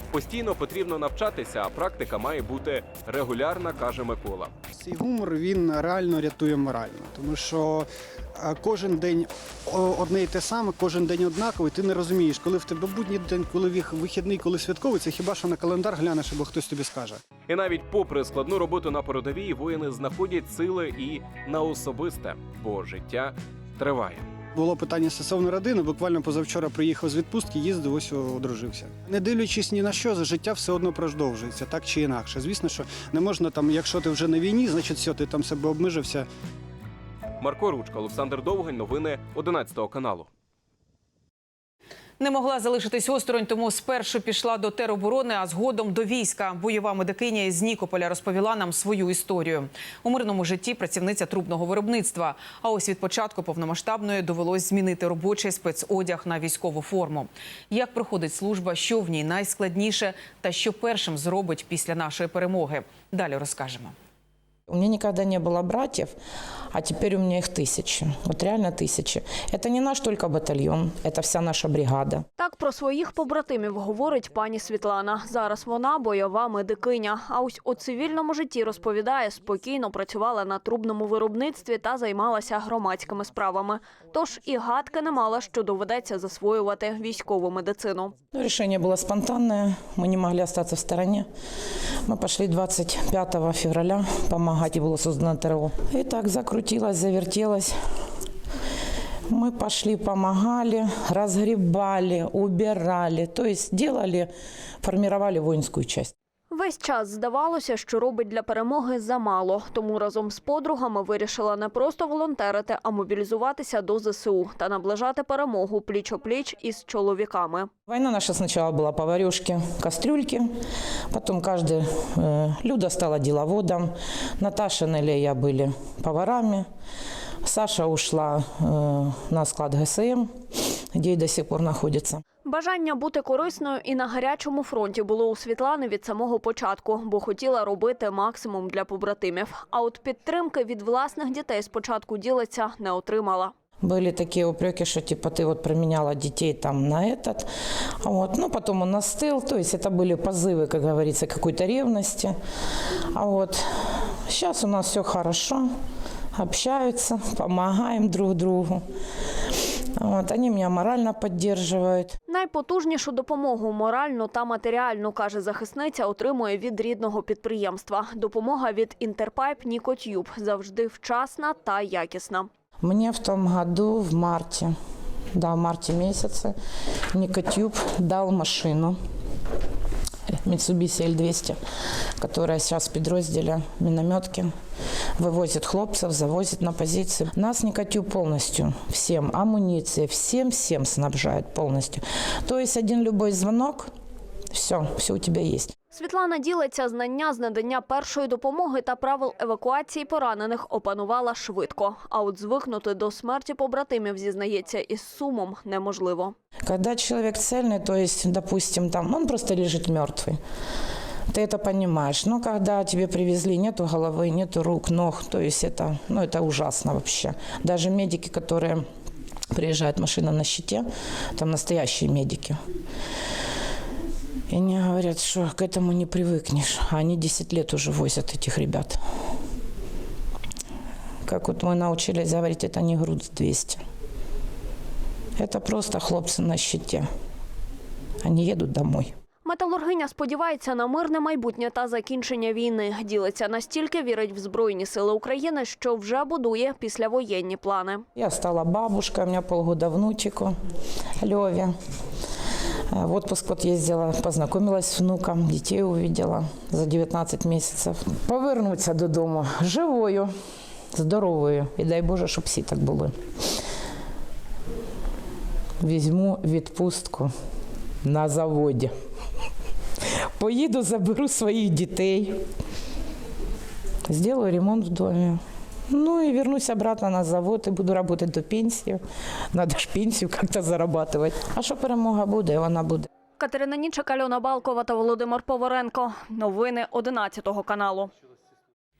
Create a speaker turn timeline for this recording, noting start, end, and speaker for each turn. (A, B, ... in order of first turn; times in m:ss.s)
0:00.1-0:04.5 A
0:04.8-0:17.2 B
0:17.5-0:24.2 A
0:24.6-0:36.3 B
0:37.4-0:40.3 A
0:42.2-1:03.9 C
1:04.7-1:06.1 D
1:06.7-1:12.2 D
1:12.4-1:28.1 E
1:28.3-1:31.2 D
1:32.0-1:37.7 D
1:39.3-1:44.3 D
1:44.8-1:46.1 D
1:46.5-1:57.7 E
1:57.9-2:00.5 D
2:01.1-2:06.7 D
2:07.4-2:10.2 D
2:10.9-2:12.2 D
2:12.4-2:23.5 E
2:23.8-2:27.5 D
2:28.0-2:32.3 D
2:33.1-2:33.6 D
2:34.3-2:35.6 D
2:36.3-2:38.8 D
2:40.0-2:42.1 D
2:42.3-2:52.5 E
2:52.8-2:54.7 D
2:55.3-2:56.5 D
2:57.1-2:59.0 D
3:00.4-3:01.6 D
3:02.2-3:04.5 D
3:05.2-3:13.9 D
3:14.5-3:15.7 D
3:15.9-3:26.3 E
3:26.6-3:30.4 D
3:31.3-3:38.8 D
3:39.5-3:42.6 D
3:44.5-3:49.0 D
3:51.2-3:53.8 D
3:55.4-3:57.1 D
3:58.2-3:59.1 D
3:59.4-4:08.0 E
4:08.1-4:10.5 D
4:11.2-4:11.7 D
4:12.9-4:20.3 D
4:20.9-4:23.1 D
4:25.8-4:27.3 D
4:28.0-4:28.9 D
4:30.4-4:32.3 D
4:34.0-4:35.4 D
4:35.9-4:39.0 D
4:39.5-4:43.1 D
4:43.4-4:48.1 E